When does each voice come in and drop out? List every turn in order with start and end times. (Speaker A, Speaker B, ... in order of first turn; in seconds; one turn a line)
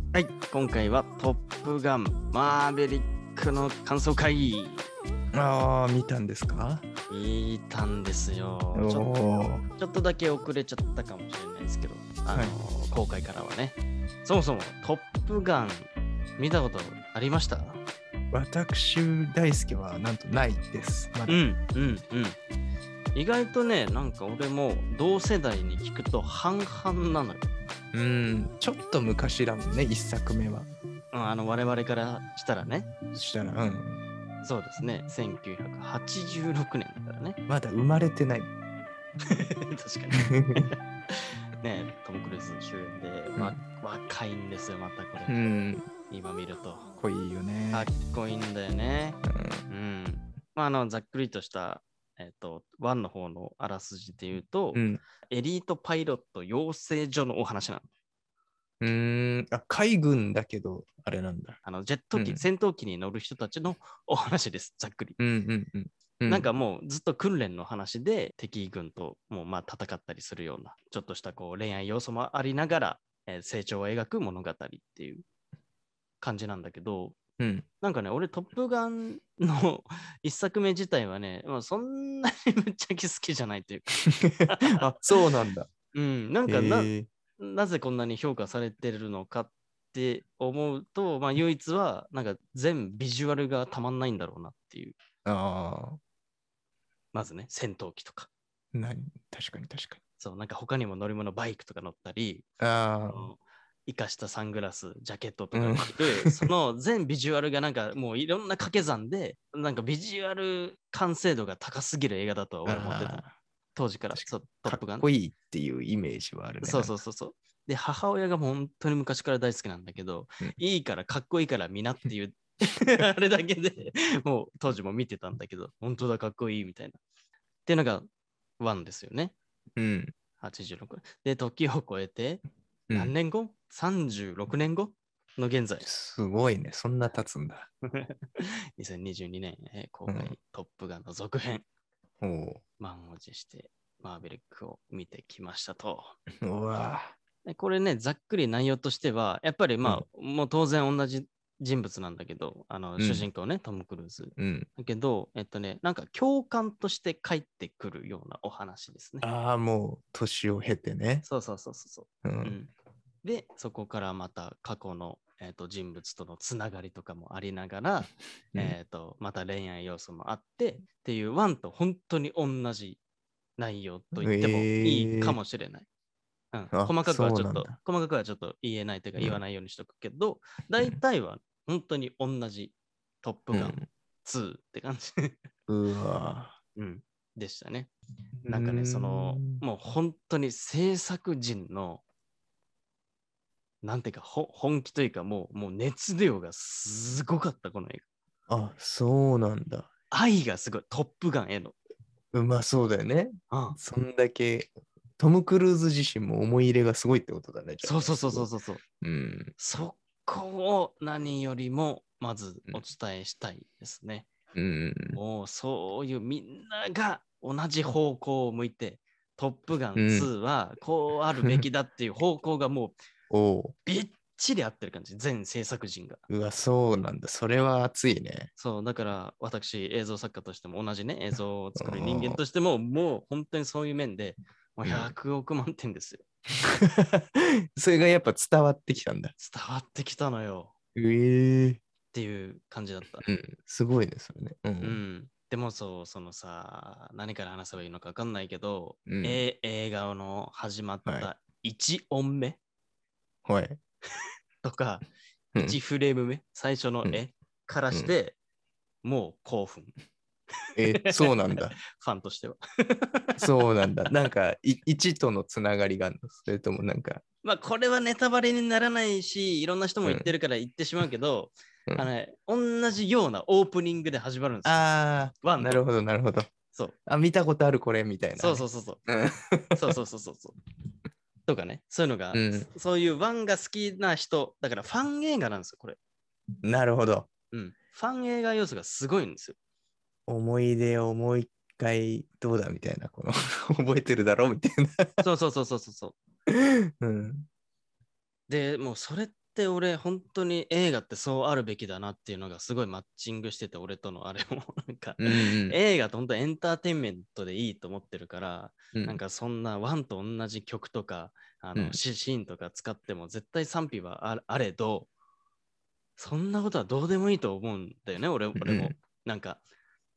Speaker A: 0.1-4.9
Speaker B: 5.3-6.8
Speaker A: 7.1-9.1
Speaker B: 8.7-9.6
Speaker A: 9.7-17.8
Speaker B: 12.3-12.5
Speaker B: 18.3-21.4
Speaker A: 21.3-22.4
Speaker A: 23.1-27.5
Speaker B: 27.9-30.7
Speaker A: 31.1-33.0
Speaker B: 33.1-34.0
Speaker A: 34.4-37.4
Speaker B: 37.5-38.5
Speaker A: 39.3-45.4
Speaker B: 40.1-40.7
Speaker B: 43.4-43.6
Speaker B: 45.3-45.9
Speaker A: 46.1-46.9
Speaker B: 47.0-47.9
Speaker A: 47.7-49.2
Speaker B: 49.2-49.7
Speaker A: 49.7-57.9
Speaker B: 54.7-55.0
Speaker B: 58.8-61.6
Speaker A: 61.6-65.2
Speaker B: 62.1-62.5
Speaker B: 65.2-66.5
Speaker A: 66.3-75.2
Speaker A: 76.2-77.2
Speaker B: 77.4-77.6
Speaker A: 77.8-85.0
Speaker B: 84.2-85.7
Speaker A: 85.9-95.0
Speaker B: 86.5-87.1
Speaker B: 95.2-96.0
Speaker A: 97.1-98.3
Speaker B: 98.7-100.0
Speaker A: 100.2-102.5
Speaker B: 102.6-103.3
Speaker A: 103.1-113.2
Speaker B: 105.5-106.5
Speaker B: 112.7-113.3
Speaker A: 113.7-115.1
Speaker B: 114.1-117.0
Speaker A: 116.6-127.0
Speaker A: 127.7-128.1
Speaker A: 128.6-129.3
Speaker B: 129.8-130.1
Speaker A: 130.4-135.9
Speaker B: 135.8-137.7
Speaker A: 137.9-141.6
Speaker B: 140.1-140.3
Speaker B: 142.2-142.6
Speaker A: 142.8-146.2
Speaker B: 146.4-147.2
Speaker A: 147.4-159.2
Speaker B: 153.0-153.3
Speaker B: 154.4-154.7
Speaker B: 159.2-161.2
Speaker A: 161.2-162.7
Speaker B: 162.2-162.6
Speaker A: 163.2-173.0
Speaker A: 173.6-175.9
Speaker B: 174.2-175.4
Speaker A: 176.5-185.4
Speaker B: 176.7-177.7
Speaker B: 179.2-179.4
Speaker B: 183.5-183.8
Speaker B: 185.7-186.6
Speaker A: 186.8-187.9
Speaker B: 188.4-189.6
Speaker A: 188.5-192.0
Speaker A: 193.8-198.0
Speaker B: 198.5-199.9
Speaker A: 200.1-201.8
Speaker B: 202.3-208.5
Speaker A: 203.5-203.8
Speaker A: 207.8-208.8
Speaker B: 209.0-209.5
Speaker A: 209.6-214.3
Speaker B: 214.5-215.2
Speaker A: 215.1-223.0
Speaker B: 219.9-220.3
Speaker B: 223.3-223.7
Speaker A: 223.8-226.2
Speaker B: 226.3-228.5
Speaker A: 228.6-236.2
Speaker B: 231.8-232.4
Speaker B: 234.8-235.1
Speaker B: 236.8-239.3
Speaker A: 239.4-240.7
Speaker B: 240.9-241.8
Speaker A: 242.1-243.2
Speaker B: 243.2-245.0
Speaker A: 244.8-252.6
Speaker B: 249.1-249.4
Speaker B: 253.4-253.8
Speaker A: 254.6-255.0
Speaker A: 255.6-258.4
Speaker A: 259.0-259.9
Speaker B: 260.8-261.8
Speaker A: 260.9-261.3
Speaker A: 261.9-263.4
Speaker B: 263.4-267.2
Speaker A: 267.4-274.8
Speaker B: 270.0-270.3
Speaker B: 274.6-276.5
Speaker A: 275.4-275.8
Speaker B: 277.1-279.9
Speaker A: 278.4-279.0
Speaker A: 279.8-280.6
Speaker A: 281.4-286.0
Speaker B: 282.3-282.7
Speaker B: 286.6-287.3
Speaker A: 287.5-289.6
Speaker B: 290.3-295.2
Speaker A: 295.2-296.2
Speaker B: 296.5-297.5
Speaker A: 298.5-315.1
Speaker B: 305.2-305.8
Speaker B: 308.9-309.2
Speaker A: 316.2-319.6
Speaker B: 318.6-318.9